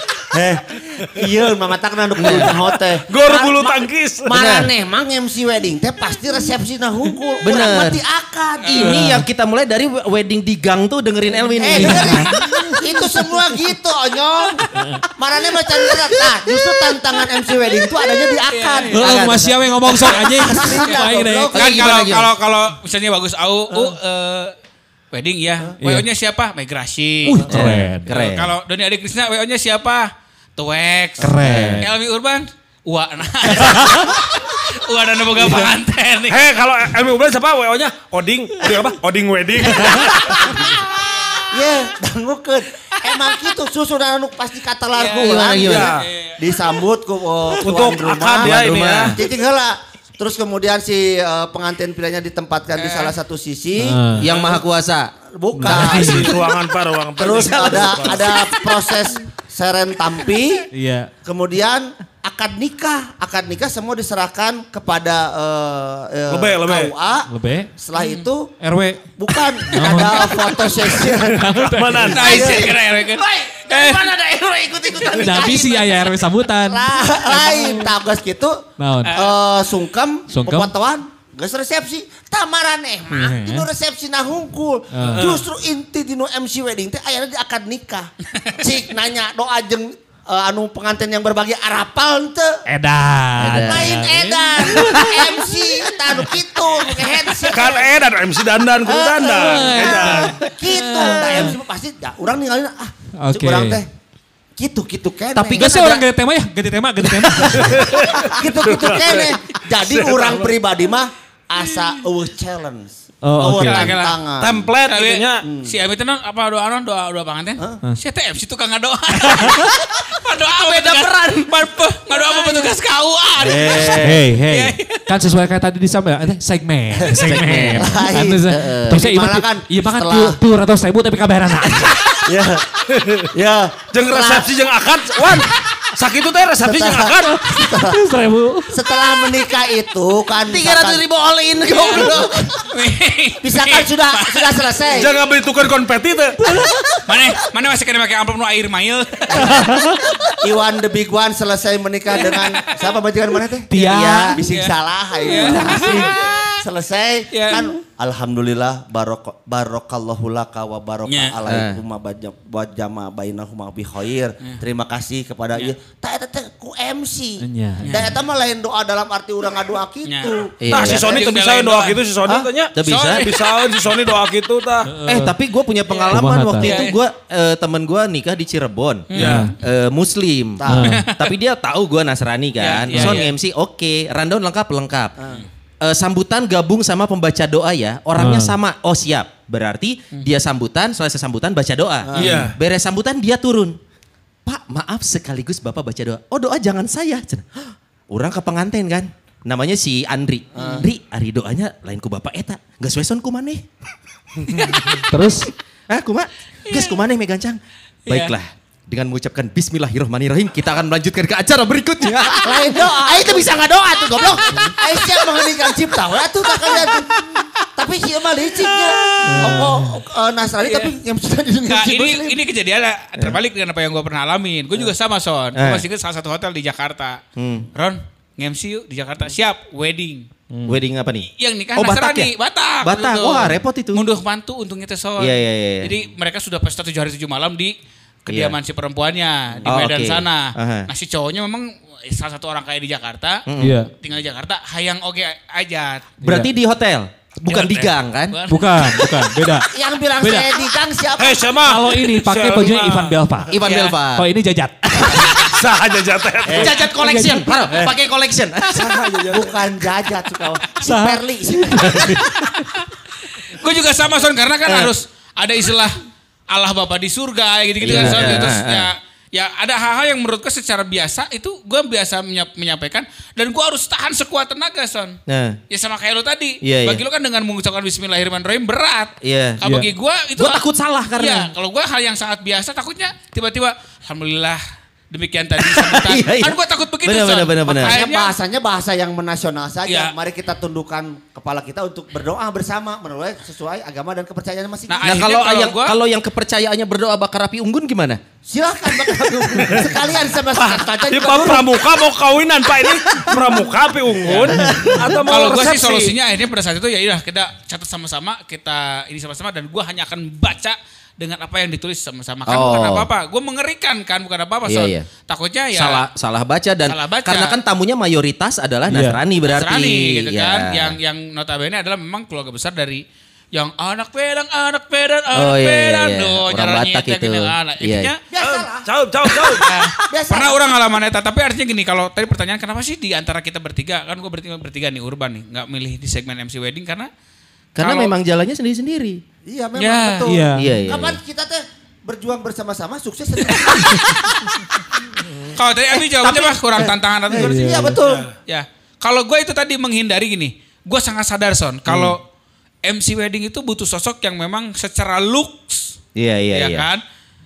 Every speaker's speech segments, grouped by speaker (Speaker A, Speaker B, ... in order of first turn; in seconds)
Speaker A: 0.3-9.1, 11.6-21.8, 40.6-40.8, 41.5-48.6, 49.1-54.5, 55.3-56.5, 57.2-60.7, 61.2-68.5, 69.2-92.6, 93.4-97.9, 98.8-103.9, 104.6-105.9, 108.3-114.7, 115.4-115.7, 122.1-122.7, 123.5-123.9, 127.8-130.4, 132.2-134.5, 136.6-138.0, 138.7-141.0, 141.6-142.6, 143.4-145.2, 146.4-147.0, 149.3-149.6, 150.1-171.2, 180.6-181.0, 185.2-185.4, 192.1-192.5, 200.6-200.9, 212.4-213.6, 214.1-217.1, 217.8-222.4, 249.7-251.5, 256.5-256.7, 258.7-262.3, 287.8-295.3, 298.4-301.8, 304.3-305.1, 328.3-328.9, 329.4-330.6, 339.4-344.6, 345.4-348.3
Speaker B: 2.2-2.5, 4.3-4.7, 7.4-8.0, 8.7-12.3, 21.5-22.3, 27.5-28.5, 31.4-31.8, 45.2-45.9, 48.4-49.1, 54.2-55.1, 93.4-94.0, 101.0-101.5, 105.3-106.0, 120.7-121.5, 123.4-124.2, 127.2-128.0, 128.5-129.0, 140.4-142.3, 161.4-161.8, 170.6-171.1, 172.8-173.3, 175.0-185.2, 185.8-193.8, 194.4-203.6, 205.9-214.7, 225.6-225.8, 227.3-227.7, 230.7-232.3, 232.8-234.0, 235.2-235.9, 238.3-238.5, 239.6-240.9, 243.5-243.8, 246.2-248.4, 253.5-254.2, 256.5-258.9, 264.6-264.9, 267.8-268.9, 275.3-275.6, 276.6-277.0, 279.2-279.6, 280.4-281.5, 285.6-288.0, 295.0-298.2, 312.5-313.1, 314.7-315.1, 315.7-321.0, 325.3-328.1, 337.8-339.2, 340.5-341.2, 351.9-352.2, 356.1-356.9
Speaker C: 3.1-4.5, 36.3-40.5, 45.6-46.0, 47.6-49.2, 55.7-58.4, 66.3-66.9, 71.4-72.5, 97.5-100.5, 107.5-110.5, 114.4-115.4, 132.9-133.3, 133.9-137.4, 144.9-146.4, 170.7-174.9, 179.2-179.5, 192.1-192.5, 204.5-204.8, 251.2-253.2, 255.4-256.8, 258.7-259.5, 299.7-300.0, 300.5-306.1, 328.4-329.7, 348.0-348.3
Speaker D: 8.6-8.9, 18.5-19.2, 20.8-24.5, 25.1-27.5, 28.1-36.4, 42.9-43.3, 44.9-46.5, 52.7-53.1, 68.0-68.3, 69.9-70.2, 72.1-74.1, 79.0-79.3, 85.2-85.4, 113.6-114.2, 114.8-125.0, 142.7-144.8, 147.1-149.6, 154.5-156.5, 157.3-157.7, 161.1-161.3, 167.8-168.1, 170.0-170.3, 170.8-172.0, 172.8-173.5, 175.9-177.0, 179.1-179.4, 180.8-181.3, 182.6-183.3, 206.7-207.0, 208.1-208.3, 220.6-220.9, 221.7-227.2, 227.7-230.3, 231.4-237.7, 238.2-246.1, 247.5-249.1, 253.6-254.0, 263.5-265.9, 266.5-275.2, 275.7-288.3, 289.9-290.1, 294.9-295.9, 305.2-316.0, 316.9-317.6, 319.5-323.0, 323.5-328.2, 329.6-337.1, 337.8-338.1, 339.8-340.3, 343.6-343.9, 345.5-347.8, 348.5-352.2, 352.8-355.9, 356.5-357.0
Speaker E: 8.9-9.2, 11.8-13.3, 14.7-15.0, 18.9-21.5, 25.8-26.1, 27.2-28.1, 31.2-31.9, 33.6-34.1, 53.8-54.3, 55.5-56.3, 60.7-61.1, 67.3-67.7, 68.6-72.3, 75.1-77.8, 78.8-79.2, 80.3-80.7, 83.1-83.7, 84.9-85.4, 92.7-95.5, 99.3-101.5, 103.2-103.8, 105.4-108.2, 113.2-113.9, 119.3-119.7, 124.0-132.1, 137.6-138.7, 149.4-150.0, 153.7-154.4, 155.3-156.0, 167.4-168.1, 174.8-175.3, 176.1-176.7, 179.2-179.5, 180.7-181.1, 188.2-188.6, 192.2-192.5, 205.1-205.5, 219.2-220.0, 230.5-230.8, 243.6-243.9, 246.2-246.5, 248.5-249.7, 250.2-250.5, 251.6-253.5, 254.1-255.6, 256.9-257.6, 260.8-262.4, 279.6-279.9, 318.9-319.2, 340.2-340.7, 347.4-348.0